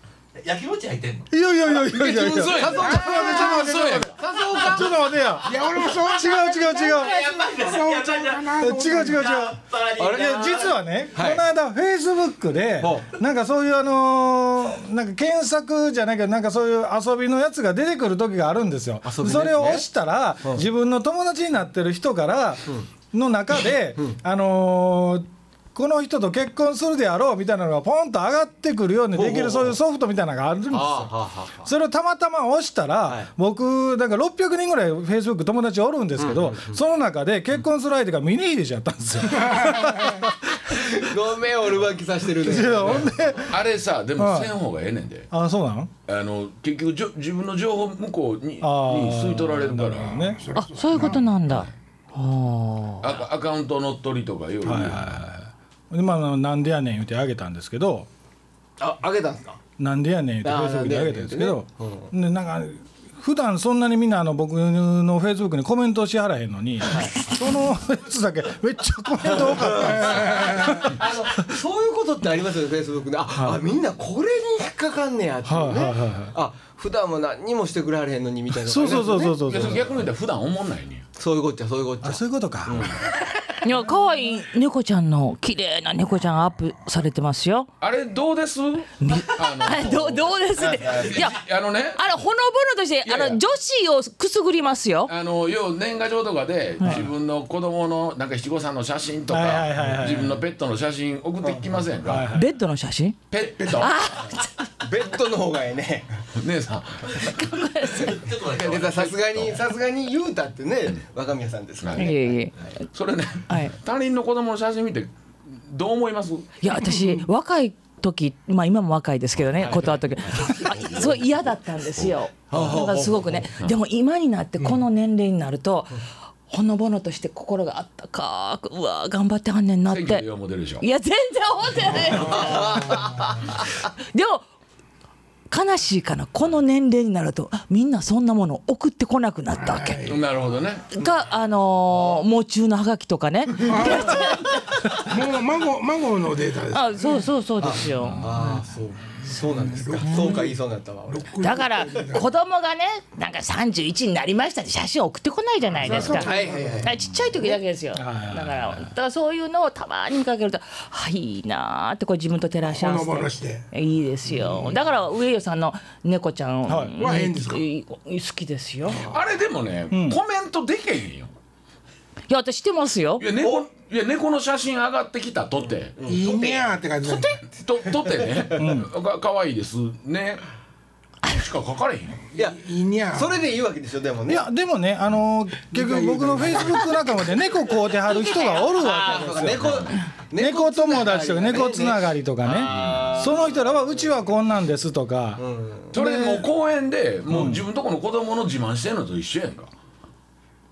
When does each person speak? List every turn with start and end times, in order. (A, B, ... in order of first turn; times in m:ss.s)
0:00.4-0:01.3 A
0:01.3-0:05.5 B
0:01.8-0:04.2 C
0:02.5-0:05.1 D
0:05.4-0:09.2 E
0:06.1-0:07.2 B
0:06.3-0:10.8 A
0:08.6-0:40.3 B
0:10.0-0:10.5 D
0:11.1-0:11.4 D
0:12.8-0:13.1 D
0:19.0-0:19.8 D
0:29.1-0:29.8 D
0:30.7-0:31.7 D
0:36.2-0:36.8 D
0:39.4-0:43.3 D
0:42.4-0:43.6 B
0:43.5-0:45.3 C
0:44.2-0:44.5 B
0:45.3-0:45.9 B
0:46.0-0:50.2 C
0:48.6-0:50.4 B
0:50.0-0:51.4 E
0:50.5-0:53.1 F
0:53.0-0:55.1 C
0:54.6-0:58.1 B
0:58.8-0:59.6 D
0:59.8-1:10.8 B
1:00.4-1:02.1 D
1:09.3-1:19.8 D
1:09.6-1:10.9 E
1:13.3-1:13.6 B
1:15.4-1:16.3 B
1:18.5-1:19.9 B
1:19.4-1:21.0 C
1:21.2-1:23.0 D
1:22.0-1:22.9 B
1:23.6-1:27.7 F
1:27.8-1:32.0 C
1:29.0-1:31.4 F
1:30.8-1:31.2 D
1:31.9-1:35.1 F
1:33.0-1:33.4 C
1:35.1-1:42.4 C
1:36.8-1:37.0 F
1:39.3-1:40.4 B
1:41.4-1:41.9 D
1:42.0-1:42.4 B
1:42.3-1:44.7 F
1:43.3-1:44.0 C
1:44.2-1:46.2 D
1:46.4-1:47.5 C
1:47.1-1:48.2 F
1:47.9-1:49.2 A
1:48.4-1:52.5 D
1:48.8-1:49.6 C
1:51.8-1:52.2 C
1:51.9-1:52.5 F
1:52.9-1:56.5 C
1:53.5-1:53.7 F
1:56.6-2:10.3 F
1:56.8-1:57.2 E
1:59.6-2:00.6 D
2:00.4-2:02.8 C
2:02.5-2:03.5 D
2:09.9-2:10.8 C
2:10.8-2:14.4 F
2:11.8-2:13.4 E
2:12.3-2:13.1 D
2:15.5-2:20.0 F
2:19.5-2:20.4 E
2:20.1-2:20.9 C
2:20.9-2:25.1 F
2:23.6-2:27.3 E
2:26.7-2:28.5 F
2:27.6-2:31.3 D
2:28.0-2:28.6 B
2:29.3-2:32.2 E
2:29.7-2:30.4 F
2:31.4-2:49.0 F
2:35.8-2:36.9 E
2:35.9-2:36.9 D
2:37.9-2:38.9 B
2:42.6-2:43.6 E
2:44.4-2:44.8 E
2:46.7-2:46.9 B
2:47.0-2:47.6 E
2:49.0-2:51.3 C
2:49.9-2:50.2 B
2:52.3-2:53.2 F
2:53.2-2:56.0 C
2:53.4-2:53.6 D
2:56.0-2:57.3 D
2:56.0-2:57.4 E
2:57.5-3:00.4 C
2:58.1-2:58.5 D
2:58.6-2:58.9 B
3:01.2-3:02.2 C
3:02.3-3:03.5 E
3:02.4-3:04.4 D
3:04.3-3:15.4 B
3:05.7-3:07.0 E
3:08.5-3:13.9 D
3:09.5-3:10.0 C
3:12.6-3:13.1 C
3:15.4-3:16.0 D
3:15.9-3:19.7 C
3:16.0-3:16.4 B
3:17.3-3:17.6 B